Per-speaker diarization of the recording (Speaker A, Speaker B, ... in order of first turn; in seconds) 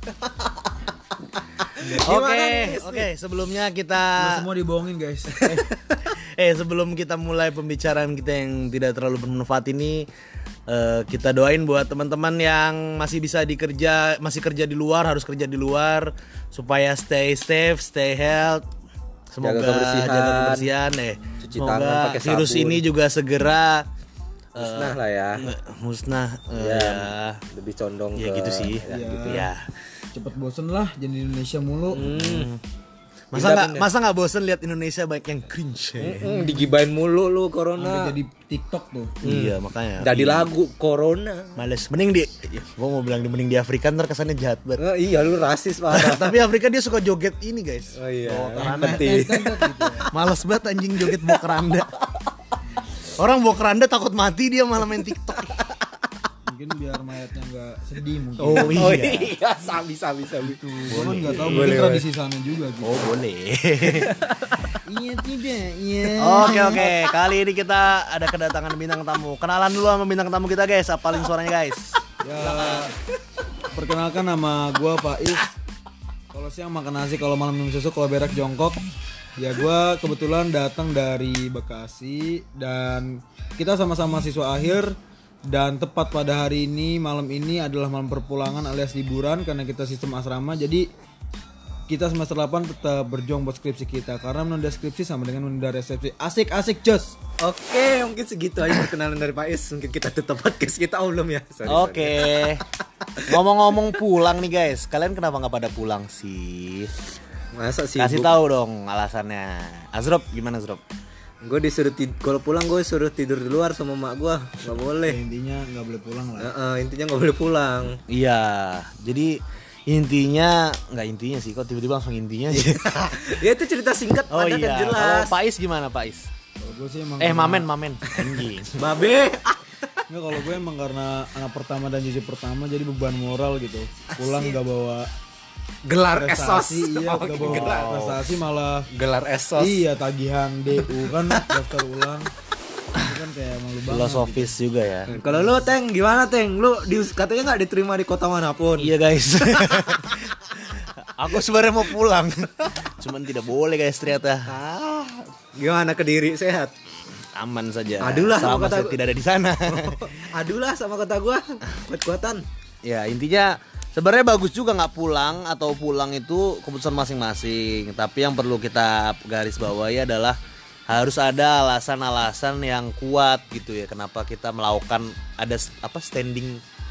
Speaker A: 0.2-0.7, 1.7-3.1, 5.3-5.7, 19.4-20.7, 21.4-22.8, 24.6-25.5, 26.5-29.5, 31.9-32.5, 33.3-33.9, 36.0-38.1, 39.2-41.6, 44.8-46.5, 47.9-50.1, 51.0-52.6, 54.8-55.8, 58.6-62.0, 63.8-64.8, 97.4-103.4, 107.5-108.4, 111.4-115.2, 116.4-118.0, 122.5-125.3, 128.0-130.6, 134.1-134.6, 135.8-137.9, 138.9-139.9, 141.0-141.5, 145.1-149.0, 154.4-156.7, 158.0-159.0, 159.6-162.4
Speaker B: 2.0-4.5, 5.5-10.1, 10.7-18.6, 19.3-23.9, 24.6-27.4, 28.1-29.7, 32.1-32.6, 33.3-36.4, 39.2-40.5, 41.6-44.8, 45.9-49.2, 50.1-51.9, 53.1-55.5, 58.4-59.3, 60.9-61.8, 62.8-64.1, 66.2-72.9, 101.7-102.6, 103.3-106.9, 108.0-110.8, 118.1-122.8, 124.3-126.3, 127.2-128.8, 137.4-138.2, 143.9-145.1, 148.8-154.6, 157.3-160.0, 162.8-170.4, 170.9-176.6
Speaker C: 4.2-5.5, 28.9-29.4, 30.1-32.0, 36.3-36.7, 37.8-39.2, 48.5-50.1, 52.6-53.0, 56.5-58.9, 60.6-63.1, 64.8-67.0, 72.2-72.9, 73.7-75.5, 76.3-78.8, 79.4-85.0, 85.5-90.8, 91.9-97.1, 115.0-116.5, 126.6-127.7, 130.1-135.1, 136.2-138.8, 139.5-142.3, 142.9-144.5, 145.2-145.5